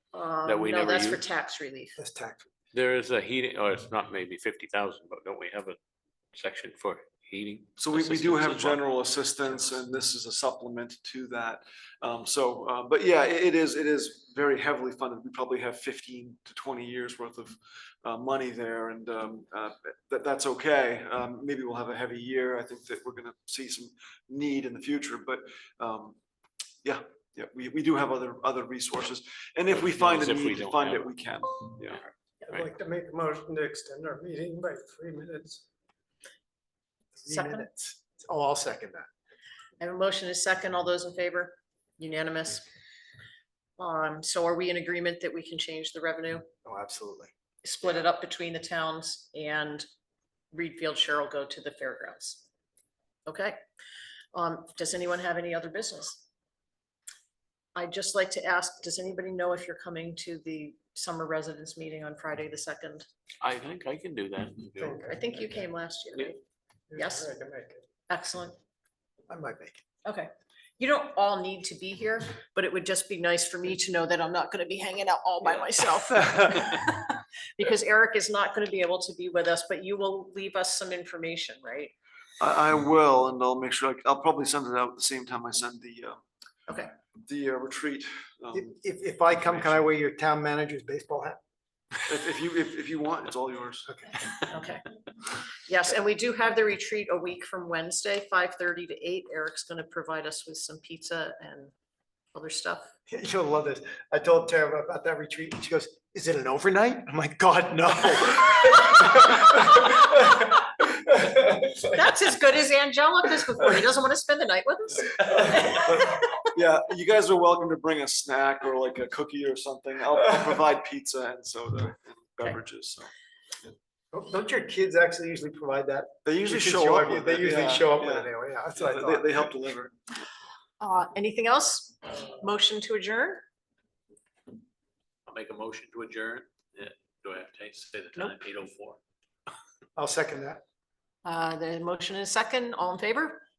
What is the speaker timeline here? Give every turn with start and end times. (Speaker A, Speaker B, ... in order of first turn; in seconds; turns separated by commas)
Speaker A: 0.1-2.0, Speaker B: 0.4-1.2, Speaker C: 2.0-2.5, Speaker B: 2.7-5.8, Speaker B: 6.3-8.8, Speaker D: 7.8-26.2, Speaker B: 9.5-9.8, Speaker D: 26.8-32.0, Speaker B: 29.7-31.1, Speaker B: 31.7-32.6, Speaker C: 32.5-35.6, Speaker C: 37.1-39.1, Speaker A: 37.3-37.7, Speaker A: 39.8-42.7, Speaker A: 43.8-46.5, Speaker C: 46.6-47.3, Speaker A: 47.6-49.8, Speaker A: 50.5-52.5, Speaker A: 53.2-53.6, Speaker A: 54.3-56.2, Speaker A: 57.7-63.0, Speaker B: 63.4-65.0, Speaker C: 64.8-65.4, Speaker A: 65.0-66.4, Speaker C: 66.9-67.8, Speaker A: 66.9-67.3, Speaker A: 68.1-68.5, Speaker C: 69.3-69.8, Speaker A: 70.0-81.9, Speaker D: 82.4-86.2, Speaker D: 87.2-88.8, Speaker C: 88.5-91.4, Speaker D: 92.1-93.9, Speaker C: 93.9-94.2, Speaker A: 94.5-94.9, Speaker A: 95.5-101.7, Speaker A: 102.3-102.9, Speaker C: 103.1-110.2, Speaker C: 111.2-111.9, Speaker A: 111.8-116.3, Speaker D: 115.5-123.1, Speaker C: 124.1-129.5, Speaker D: 126.2-129.9, Speaker A: 130.8-133.4, Speaker B: 135.3-139.0, Speaker C: 140.0-140.6, Speaker A: 141.2-143.4